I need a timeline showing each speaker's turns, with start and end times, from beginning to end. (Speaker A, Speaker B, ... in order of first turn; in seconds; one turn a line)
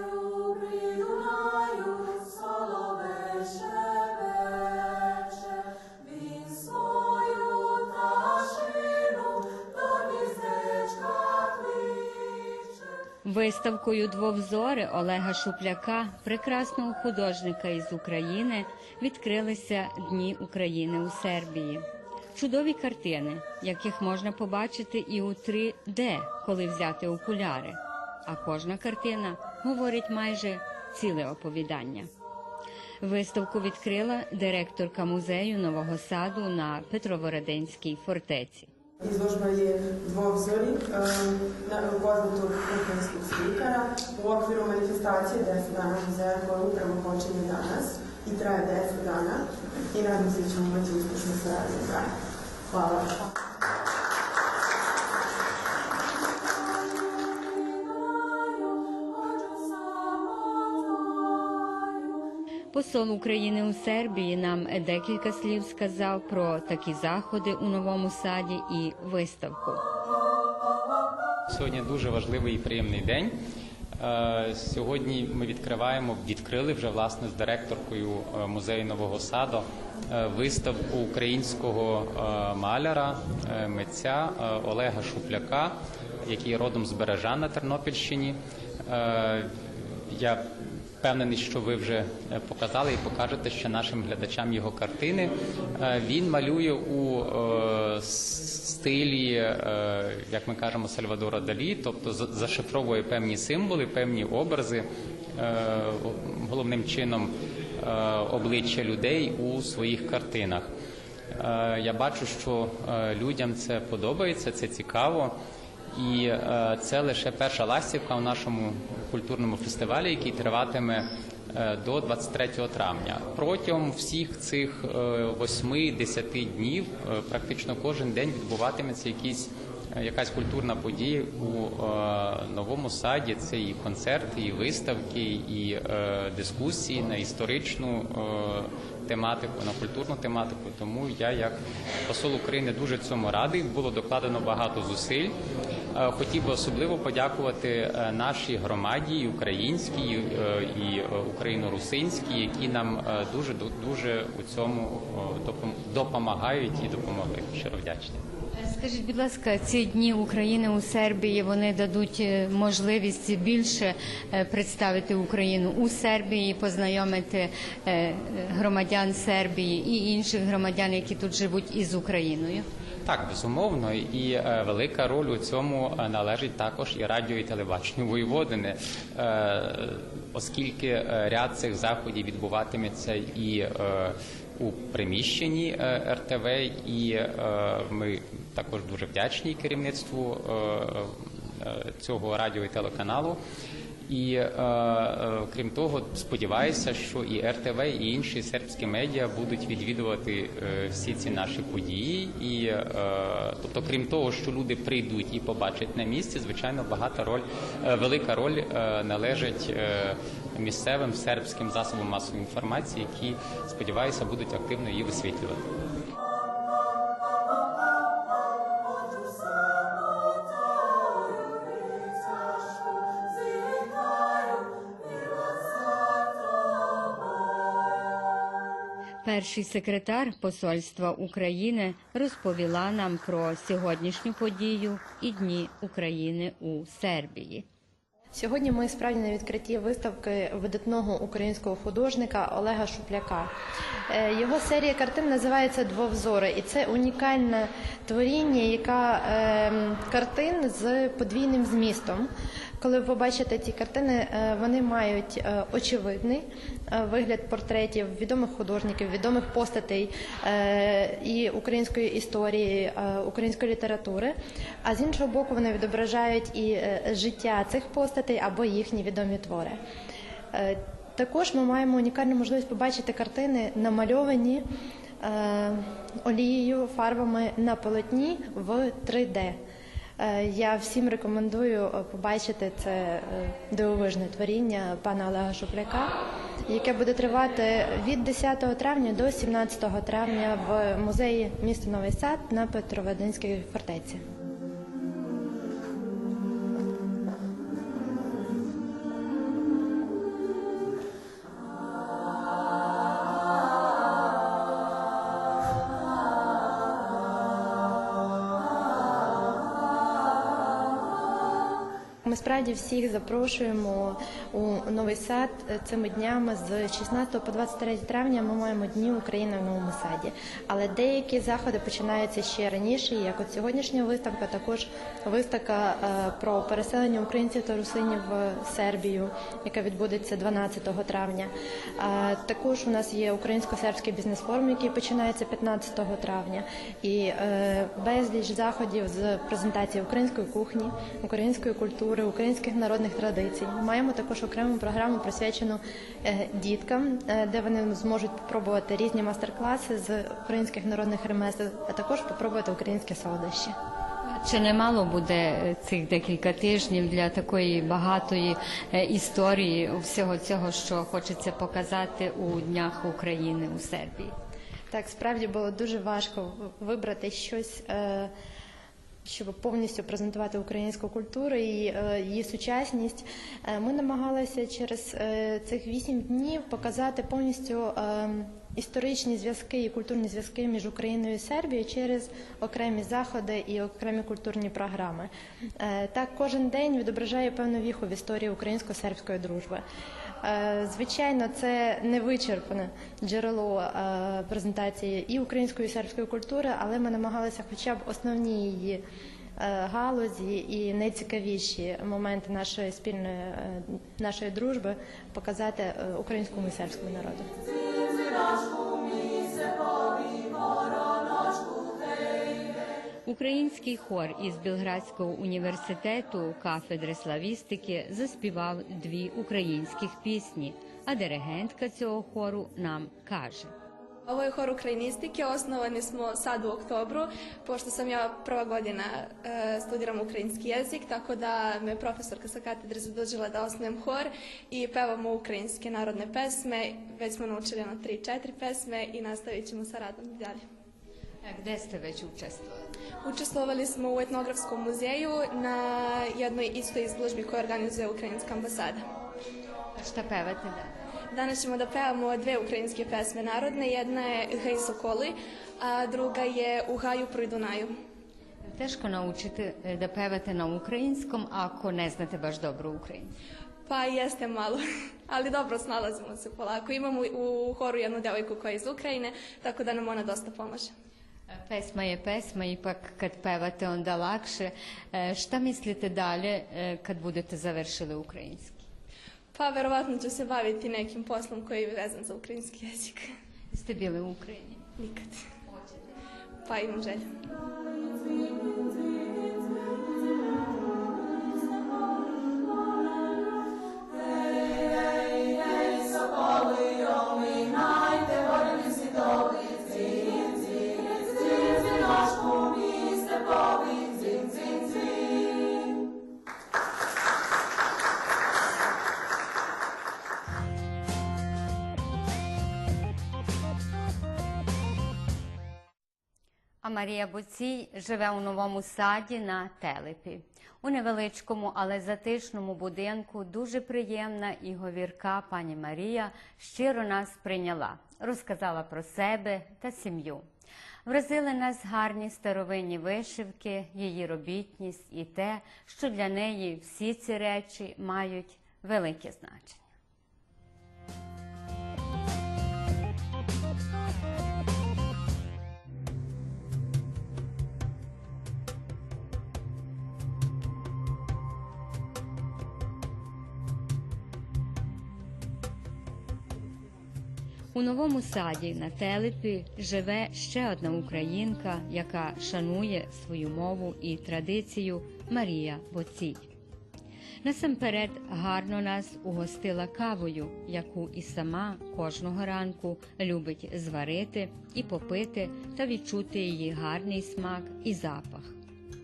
Speaker A: 13.2-32.1
Speaker A: 33.0-38.7
Speaker B: 39.0-53.3
Speaker A: 62.7-69.8
Speaker C: 71.5-73.3
Speaker C: 74.0-110.7
Speaker C: 111.3-115.3
Speaker C: 115.9-145.3
Speaker C: 145.9-158.2
Speaker A: 158.5-172.7
Speaker C: 173.0-193.4
Speaker C: 194.1-215.8
Speaker A: 229.2-237.6
Speaker D: 238.3-243.5
Speaker D: 244.1-252.3
Speaker D: 252.8-269.8
Speaker D: 270.5-274.6
Speaker D: 275.2-279.6
Speaker D: 280.2-294.2
Speaker D: 312.2-353.8
Speaker A: 354.2-364.3
Speaker D: 364.9-368.3
Speaker D: 369.2-389.8
Speaker D: 390.4-399.0
Speaker D: 399.6-407.5
Speaker A: 413.2-423.7
Speaker E: 424.3-440.6
Speaker A: 441.4-442.9
Speaker E: 443.2-449.0
Speaker A: 449.9-451.0
Speaker E: 451.3-457.9
Speaker A: 458.6-463.3
Speaker E: 463.9-470.9
Speaker A: 471.5-478.9
Speaker E: 479.5-483.3
Speaker A: 483.7-484.8
Speaker E: 485.0-485.5
Speaker E: 486.6-487.4
Speaker A: 516.8-530.4
Speaker A: 531.0-539.9
Speaker A: 557.7-566.5
Speaker A: 567.4-578.5